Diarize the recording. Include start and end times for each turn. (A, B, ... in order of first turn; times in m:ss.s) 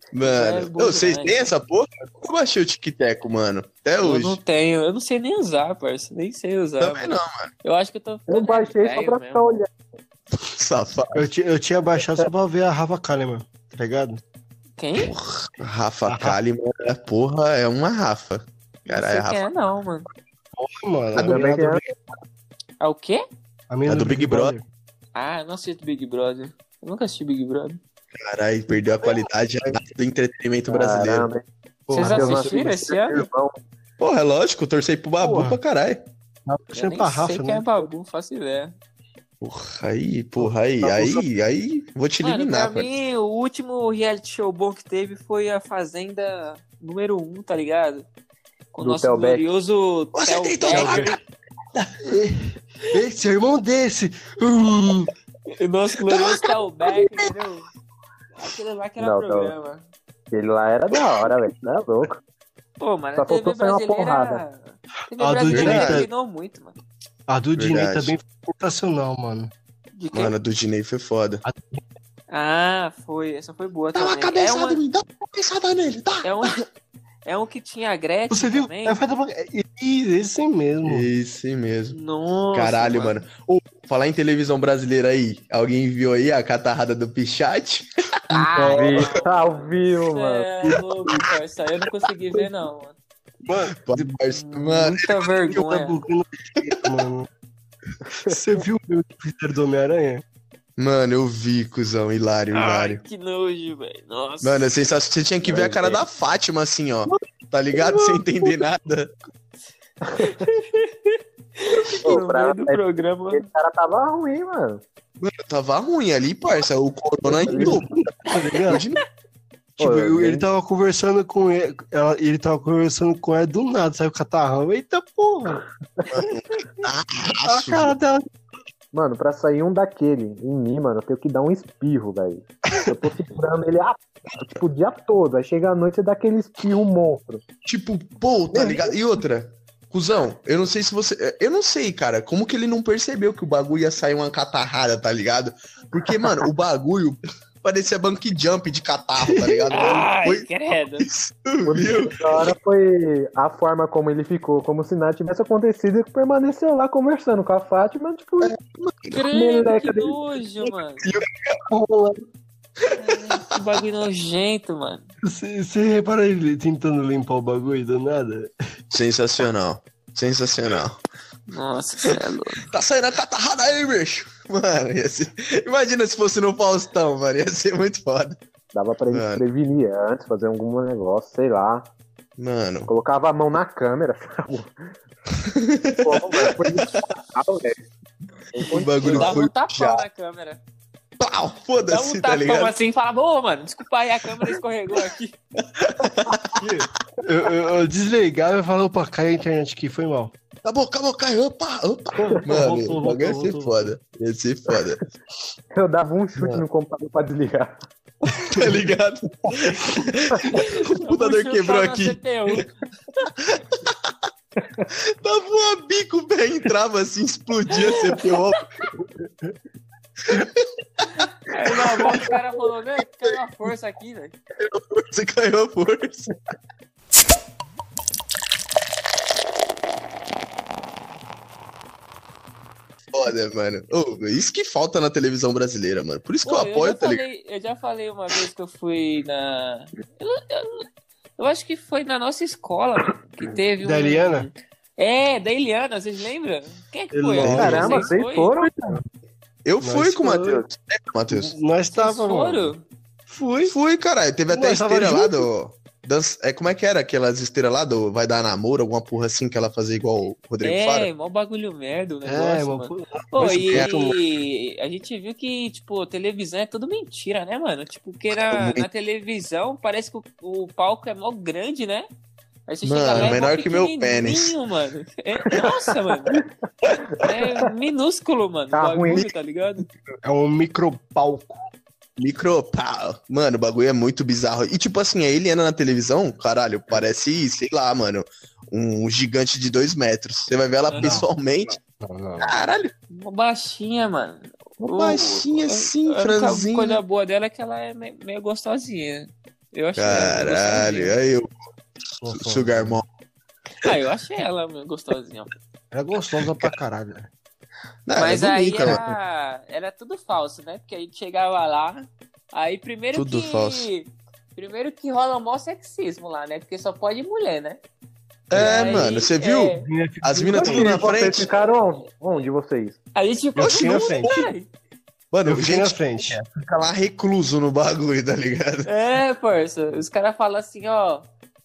0:00.1-0:04.4 A
0:00.2-0:01.5 B
0:04.0-0:09.5 B
0:06.8-0:07.5 A
0:08.3-0:09.7 C
0:10.4-0:11.3 A
0:11.1-0:14.2 D
0:14.8-0:15.1 B
0:15.0-0:19.5 A
0:16.1-0:16.4 D
0:18.9-0:20.1 B
0:20.6-0:21.9 D
0:21.2-0:21.7 A
0:21.2-0:21.8 C
0:22.8-0:23.2 B
0:23.7-0:24.6 D
0:23.9-0:24.5 A
0:25.2-0:27.8 B
0:28.2-0:31.3 A
0:30.7-0:33.6 C
0:31.9-0:32.7 D
0:31.9-0:33.3 B
0:34.0-0:36.0 A
0:35.2-0:35.6 D
0:36.4-0:37.8 D
0:36.7-0:38.7 B
0:39.4-0:42.9 A
0:40.4-0:41.2 D
0:42.2-0:48.0 B
0:48.7-0:51.2 B
0:48.8-0:49.4 C
0:50.1-0:51.2 A
0:52.0-0:55.1 D
0:55.5-0:57.7 B
0:56.1-0:56.4 A
0:58.3-0:59.8 B
0:59.0-0:59.5 C
1:00.3-1:02.2 C
1:02.8-1:06.8 B
1:03.2-1:04.4 C
1:05.2-1:06.1 D
1:05.4-1:06.0 A
1:07.3-1:09.5 D
1:07.6-1:08.1 A
1:10.0-1:10.3 B
1:10.1-1:11.4 A
1:11.4-1:11.8 D
1:12.3-1:14.8 B
1:13.9-1:16.5 A
1:16.2-1:16.6 B
1:17.2-1:19.0 B
1:18.3-1:21.1 D
1:20.8-1:22.0 A
1:21.9-1:23.2 B
1:22.5-1:28.2 A
1:28.3-1:33.0 B
1:28.3-1:29.1 D
1:28.7-1:30.5 C
1:30.6-1:31.2 D
1:33.4-1:34.1 D
1:33.8-1:35.5 A
1:34.3-1:36.0 B
1:35.5-1:37.3 D
1:38.2-1:40.2 D
1:40.8-1:43.0 A
1:42.5-1:44.7 B
1:44.4-1:49.1 A
1:45.4-1:46.0 D
1:47.7-1:48.6 D
1:50.2-1:53.4 B
1:52.0-1:54.8 C
1:55.2-1:59.0 A
1:57.3-1:58.8 D
1:57.4-1:57.8 C
1:59.8-2:05.6 D
1:59.8-2:00.5 C
2:06.1-2:08.0 A
2:07.4-2:08.2 D
2:08.9-2:17.4 C
2:17.6-2:32.5 A
2:18.5-2:19.0 C
2:29.2-2:30.0 D
2:29.7-2:31.1 B
2:31.6-2:38.5 C
2:38.4-2:39.2 A
2:39.1-2:41.1 B
2:39.3-2:40.2 C
2:41.0-2:41.6 A
2:41.7-2:42.2 D
2:42.9-2:43.5 A
2:42.9-2:45.1 B
2:45.2-2:48.5 D
2:48.9-2:51.0 A
2:51.5-2:52.6 B
2:52.6-2:58.4 A
2:58.7-3:01.9 C
2:59.1-2:59.4 A
3:02.4-3:02.9 A
3:02.9-3:04.7 C
3:05.4-3:07.1 A
3:06.0-3:07.8 C
3:08.5-3:09.4 C
3:08.6-3:10.0 A
3:09.0-3:10.6 B
3:11.2-3:12.7 A
3:11.9-3:15.4 B
3:15.6-3:16.6 A
3:16.6-3:20.3 D
3:20.6-3:25.1 A
3:22.2-3:23.9 D
3:25.7-3:27.8 C
3:28.4-3:32.2 A
3:30.5-3:32.7 B
3:33.4-3:34.0 A
3:34.6-3:34.8 C
3:34.9-3:38.7 A
3:37.9-3:38.2 B
3:39.0-3:39.5 D
3:40.3-3:41.1 A
3:41.5-3:44.3 B
3:44.6-3:46.3 A
3:53.1-3:57.2 A
3:56.4-4:00.9 B
4:01.4-4:08.5 B
4:03.8-4:04.5 D
4:07.1-4:08.1 D
4:07.4-4:08.0 A
4:07.5-4:09.0 C
4:09.6-4:11.5 A
4:09.8-4:10.6 D
4:11.3-4:12.7 D
4:11.9-4:12.8 B
4:13.3-4:13.7 D
4:13.6-4:21.1 A
4:14.5-4:15.5 D
4:20.6-4:32.1 B
4:22.2-4:24.2 D
4:28.5-4:28.9 A
4:32.7-4:36.4 B
4:32.8-4:34.5 A
4:37.1-4:37.7 C
4:37.2-4:39.9 B
4:38.7-4:39.2 C
4:40.2-4:41.6 D
4:42.2-4:51.8 A
4:50.9-4:51.3 D
4:52.0-4:52.6 D
4:52.4-4:52.9 A
4:53.1-5:01.1 B
4:54.8-4:57.0 A
5:00.0-5:01.5 A
5:02.2-5:03.0 D
5:02.3-5:03.0 A
5:03.8-5:05.5 B
5:05.9-5:07.3 D
5:08.1-5:09.0 A
5:08.2-5:17.8 B
5:13.1-5:13.9 A
5:18.5-5:21.5 A
5:18.5-5:19.1 D
5:18.6-5:19.9 B
5:19.8-5:21.4 D
5:20.5-5:23.0 C
5:23.1-5:24.7 B
5:23.6-5:24.4 D
5:23.6-5:24.4 A
5:25.3-5:28.9 A
5:25.4-5:26.4 D
5:28.8-5:31.3 B